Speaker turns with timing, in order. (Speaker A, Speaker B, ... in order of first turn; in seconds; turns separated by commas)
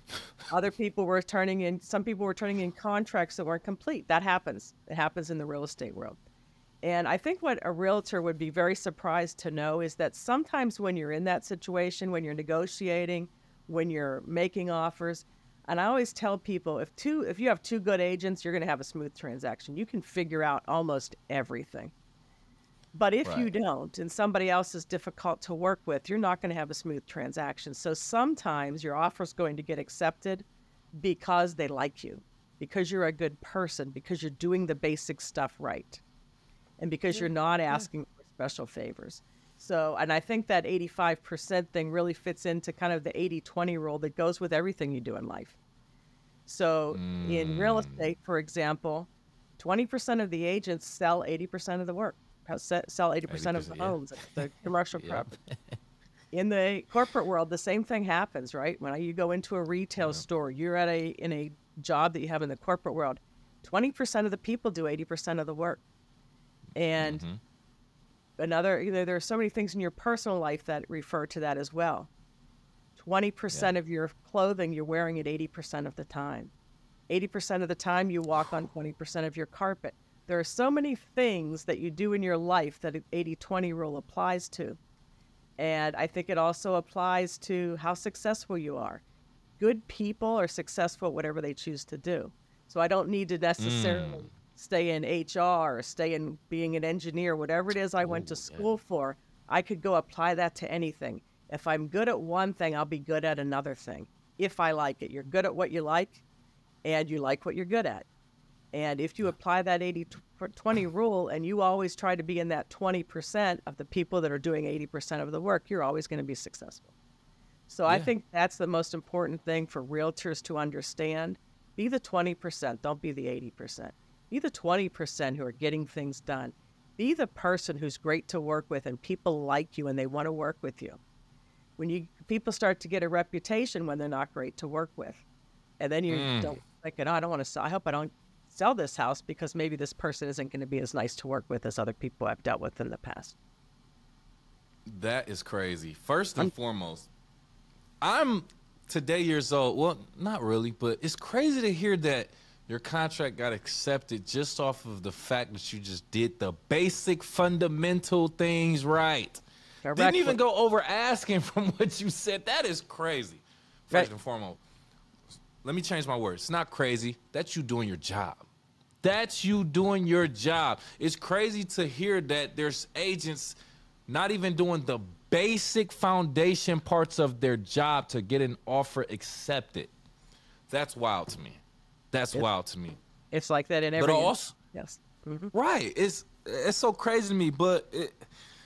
Speaker A: 0.5-6.2, Speaker A: 6.8-21.9, Speaker A: 22.9-30.4, Speaker B: 23.2-23.5, Speaker A: 31.0-36.0, Speaker A: 36.8-45.6, Speaker B: 37.1-37.9, Speaker A: 46.5-55.4, Speaker B: 46.9-48.0, Speaker B: 53.3-54.4, Speaker B: 55.0-55.8, Speaker A: 56.3-65.8, Speaker A: 66.8-67.2, Speaker B: 67.0-67.4, Speaker A: 68.4-72.1, Speaker A: 73.0-76.5, Speaker A: 77.1-84.8, Speaker A: 85.6-89.0, Speaker A: 89.6-106.2, Speaker B: 93.6-94.3, Speaker B: 98.0-98.7, Speaker A: 106.8-108.1, Speaker A: 108.7-116.9, Speaker A: 117.7-131.0, Speaker A: 131.8-135.2, Speaker A: 135.8-143.4, Speaker B: 136.1-136.6, Speaker B: 144.9-147.1, Speaker B: 148.0-159.4, Speaker A: 159.8-160.4, Speaker B: 159.9-164.6, Speaker B: 165.6-168.4, Speaker B: 169.0-173.6, Speaker B: 174.1-179.9, Speaker B: 180.7-181.6, Speaker B: 182.1-183.0, Speaker A: 183.3-185.5, Speaker B: 184.0-184.6, Speaker B: 185.5-188.3